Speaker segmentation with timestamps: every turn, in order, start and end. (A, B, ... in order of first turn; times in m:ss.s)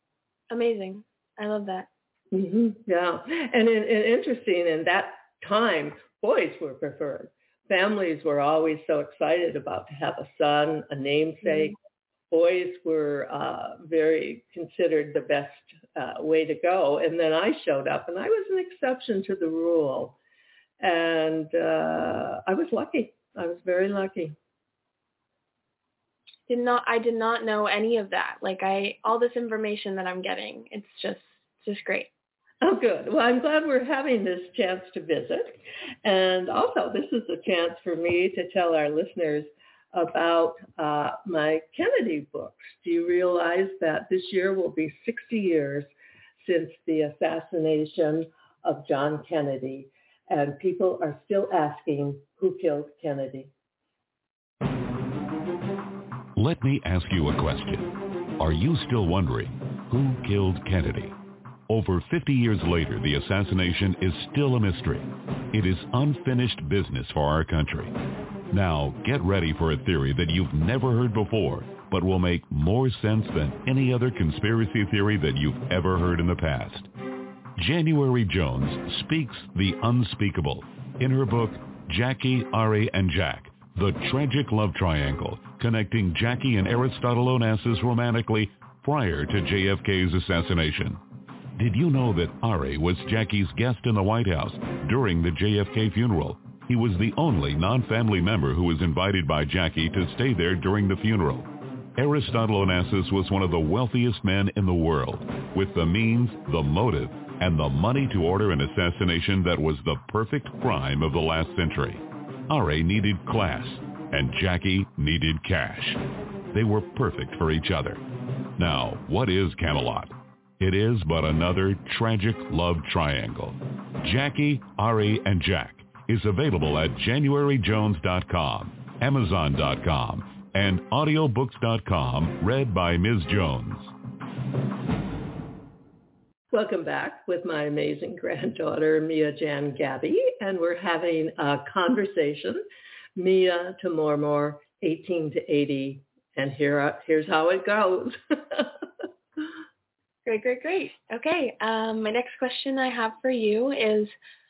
0:00.5-0:01.9 A
0:02.3-0:11.8 B
0:12.3-0:20.2 B
0:20.8-0:24.4 B
0:26.5-0:32.1 A
0:32.6-0:53.5 B
0:56.4-1:01.2 C
1:01.7-1:07.9 C
1:08.5-1:16.9 C
1:17.6-1:31.0 C
1:31.6-1:56.0 C
1:56.5-1:58.0 C
1:58.6-2:13.9 C
2:16.5-2:22.6 B
2:23.2-2:28.9 B
2:30.3-2:34.1 A